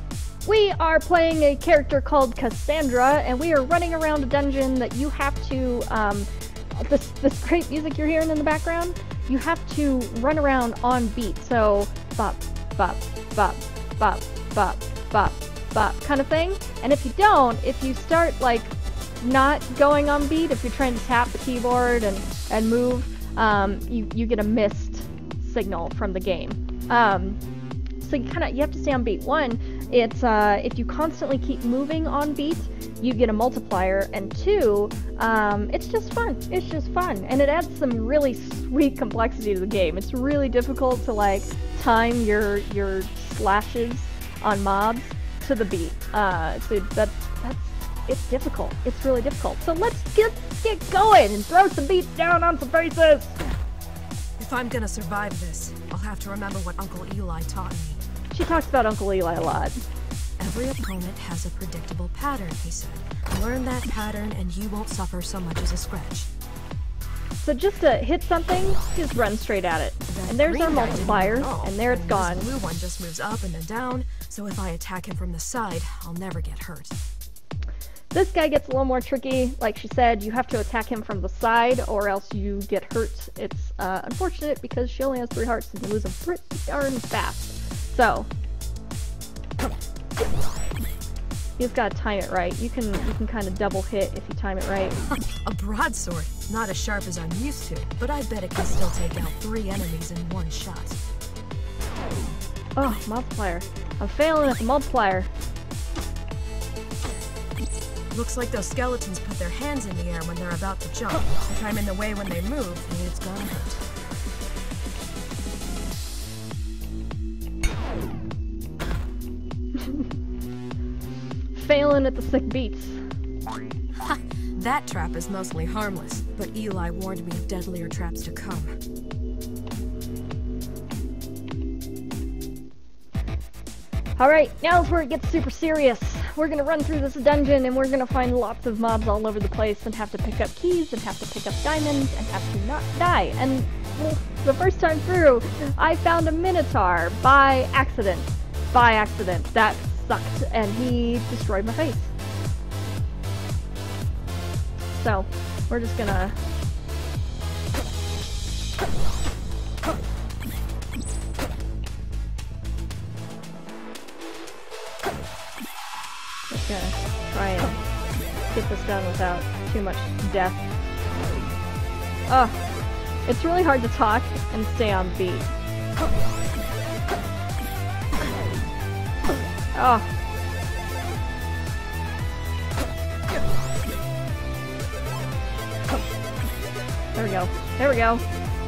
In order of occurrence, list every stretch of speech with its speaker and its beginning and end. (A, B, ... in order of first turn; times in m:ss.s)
0:00.4-0:27.4 A
0:28.0-0:53.4 A
0:54.4-0:58.0 B
0:58.3-0:59.8 A
1:00.4-1:06.3 B
1:07.4-1:12.5 A
1:10.1-1:17.0 B
1:18.1-1:28.3 A
1:31.6-1:35.0 A
1:35.3-1:41.0 B
1:42.8-1:45.3 A
1:48.1-1:53.8 B
2:01.5-2:03.0 A
2:04.0-2:08.8 B
2:14.2-2:32.1 A
2:34.9-2:36.4 A
2:46.5-2:47.8 A
2:48.5-2:50.7 A
2:52.3-2:52.6 A
2:53.2-2:55.5 A
2:59.7-3:00.1 A
3:07.1-3:08.2 A